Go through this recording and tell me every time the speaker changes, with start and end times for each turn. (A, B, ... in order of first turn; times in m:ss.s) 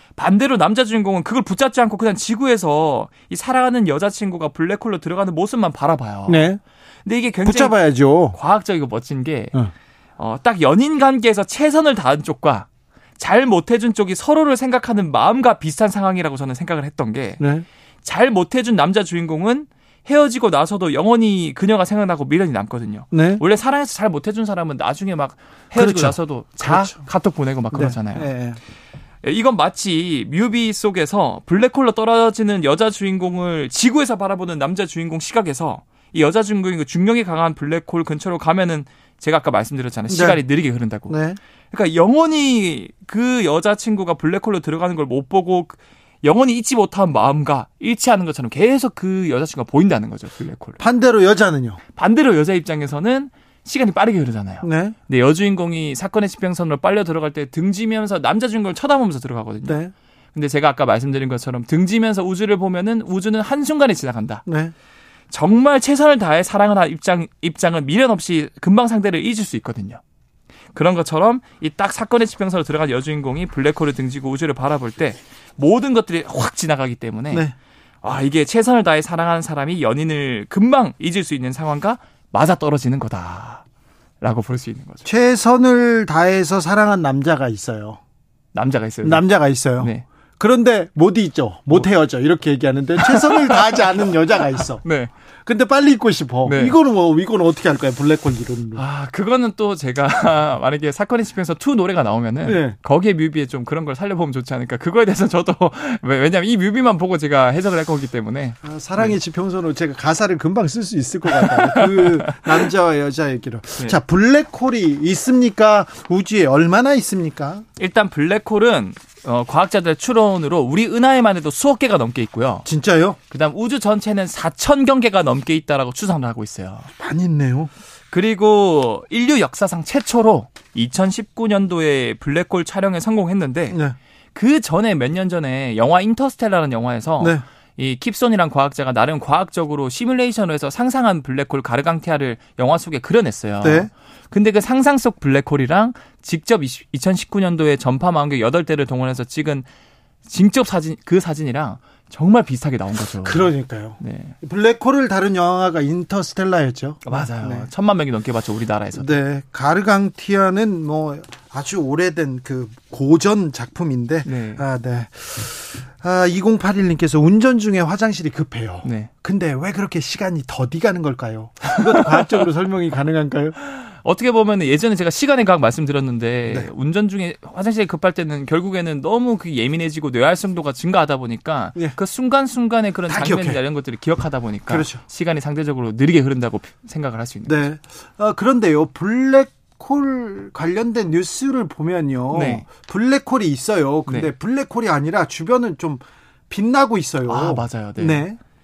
0:00.2-0:06.5 A
0:06.3-0:06.6 B
0:07.0-0:07.7 A
0:07.4-0:08.4 B
0:08.3-0:09.6 A
0:10.2-0:12.7 A
0:13.2-0:17.4 A
0:17.4-0:17.6 B
0:18.0-0:28.3 A
0:23.1-0:23.4 B
0:25.8-0:27.0 B
0:27.7-0:28.6 B
0:29.2-0:41.1 A
0:40.1-0:40.4 B
0:41.1-0:41.4 B
0:41.7-0:50.8 A
0:50.8-0:51.8 B
0:52.0-0:59.8 A
0:54.6-0:55.0 B
0:59.6-0:59.9 B
1:00.3-1:04.4 A
1:04.4-1:04.7 B
1:05.3-1:10.0 A
1:10.7-1:17.4 A
1:18.0-1:23.6 A
1:24.2-1:25.0 A
1:25.0-1:28.0 B
1:28.5-1:29.2 A
1:29.0-1:34.8 B
1:29.8-1:30.0 A
1:33.0-1:33.8 A
1:34.8-1:35.1 A
1:35.4-1:38.8 B
1:36.4-1:36.8 A
1:38.8-1:49.2 A
1:42.4-1:42.8 B
1:48.6-1:57.6 B
1:51.4-1:52.6 A
1:57.8-2:02.7 A
2:02.6-2:03.2 B
2:03.3-2:06.9 A
2:07.0-2:07.7 B
2:08.1-2:13.8 A
2:13.7-2:14.0 B
2:14.3-2:29.7 A
2:23.6-2:23.9 B
2:30.2-2:33.5 A
2:33.2-2:37.7 B
2:34.0-2:34.3 A
2:37.0-2:39.1 A
2:39.0-2:53.6 B
2:44.2-2:44.6 A
2:48.8-2:49.1 A
2:53.7-3:07.6 A
3:03.1-3:03.6 B
3:04.7-3:05.0 B
3:07.5-3:18.4 B
3:12.3-3:12.6 A
3:17.3-3:18.2 A